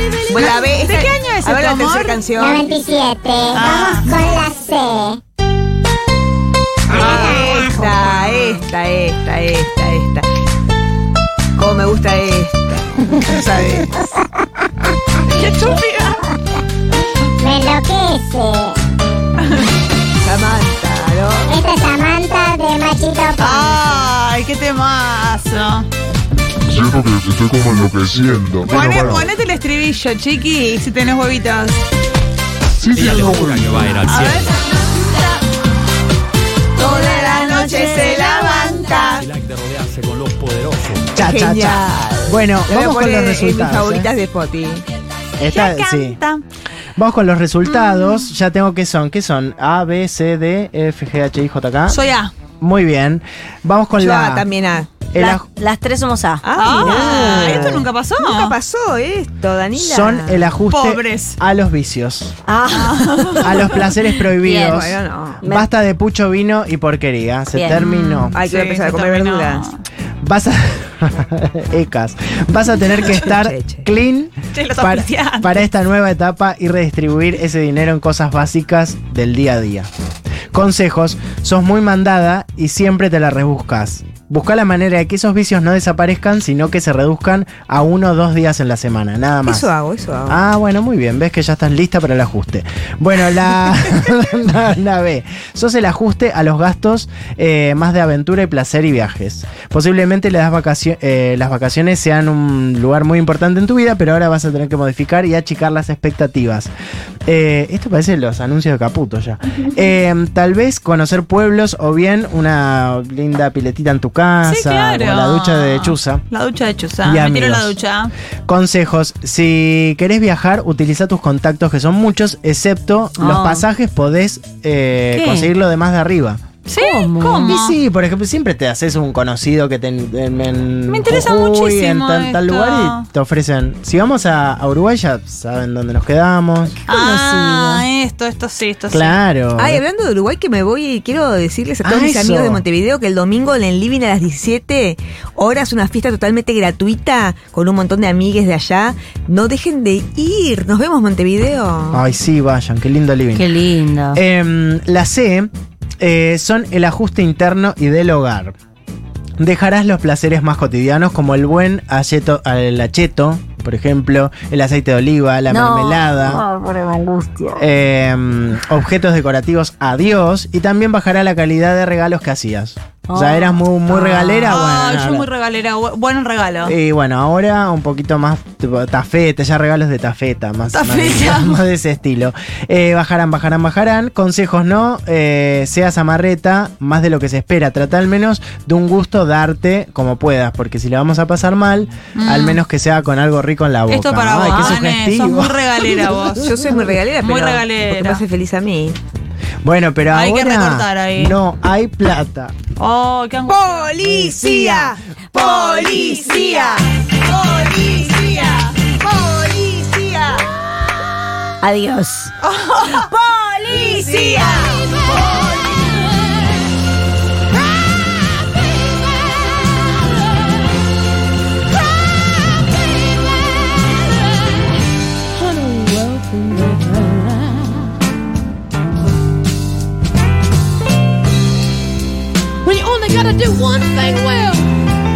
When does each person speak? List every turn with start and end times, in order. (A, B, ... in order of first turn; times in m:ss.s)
0:00.3-0:02.2 A
0:00.3-0:02.7 B
0:02.4-0:05.2 C
0:03.5-0:04.3 A
0:06.9-0:10.2 B
0:06.9-0:08.6 A
0:11.6-0:14.0 B
0:15.2-0:16.3 A
0:17.4-0:18.8 C
0:20.2-0:21.6 B
0:21.5-0:24.0 C
0:23.4-0:25.9 A
0:26.7-0:29.3 D
0:28.6-0:31.8 A
0:32.8-0:33.7 D
0:32.9-0:34.5 E
0:33.0-0:35.4 A
0:36.8-0:39.0 A
0:36.8-0:39.3 B
0:39.2-0:41.0 E
0:41.1-0:44.1 F
0:41.2-0:44.8 B
0:45.4-0:46.2 F
0:45.4-0:46.4 A
0:47.0-0:52.0 F
0:47.7-0:48.3 A
0:51.9-0:52.3 A
0:52.6-0:54.4 F
0:54.0-0:54.9 B
0:55.1-0:55.5 F
0:55.1-0:56.4 G
0:56.4-1:00.6 B
0:56.6-0:58.6 A
0:56.8-0:57.9 F
0:59.7-1:02.4 F
1:00.7-1:01.4 A
1:02.5-1:05.7 G
1:02.7-1:03.7 A
1:03.4-1:08.4 F
1:04.6-1:05.4 B
1:07.5-1:07.8 G
1:07.8-1:09.8 A
1:08.3-1:09.7 B
1:10.2-1:19.9 F
1:13.2-1:13.9 B
1:14.5-1:15.6 A
1:20.5-1:29.7 F
1:29.5-1:30.4 B
1:30.3-1:46.7 F
1:47.2-1:56.2 F
1:54.4-1:58.1 A
1:57.0-1:57.8 F
1:58.4-2:06.4 F
2:03.2-2:03.6 G
2:05.1-2:05.5 G
2:06.7-2:07.8 A
2:06.7-2:07.6 G
2:07.4-2:16.9 F
2:10.9-2:13.0 A
2:16.9-2:19.2 A
2:16.9-2:17.8 G
2:18.9-2:19.8 F
2:19.6-2:32.0 B
2:21.8-2:22.6 F
2:31.9-2:33.5 F
2:33.3-2:34.2 G
2:34.1-2:38.5 F
2:39.4-2:46.4 F
2:45.5-2:47.6 G
2:47.5-2:55.3 F
2:53.1-2:54.5 G
2:54.4-2:56.7 A
2:56.6-3:16.7 F
3:00.7-3:01.6 A
3:12.2-3:12.6 A
3:13.9-3:16.6 A
3:14.5-3:14.8 G
3:16.3-3:19.0 B
3:17.2-3:18.2 A
3:19.6-3:22.6 F
3:20.1-3:21.4 A
3:22.8-3:23.9 A
3:23.4-3:30.5 B
3:24.0-3:24.9 F
3:25.3-3:26.7 A
3:31.6-3:32.3 G
3:32.5-3:32.9 A
3:32.8-3:34.4 G
3:33.7-3:34.9 B
3:45.5-3:46.9 H
3:52.7-3:54.5 H
3:52.8-3:54.6 F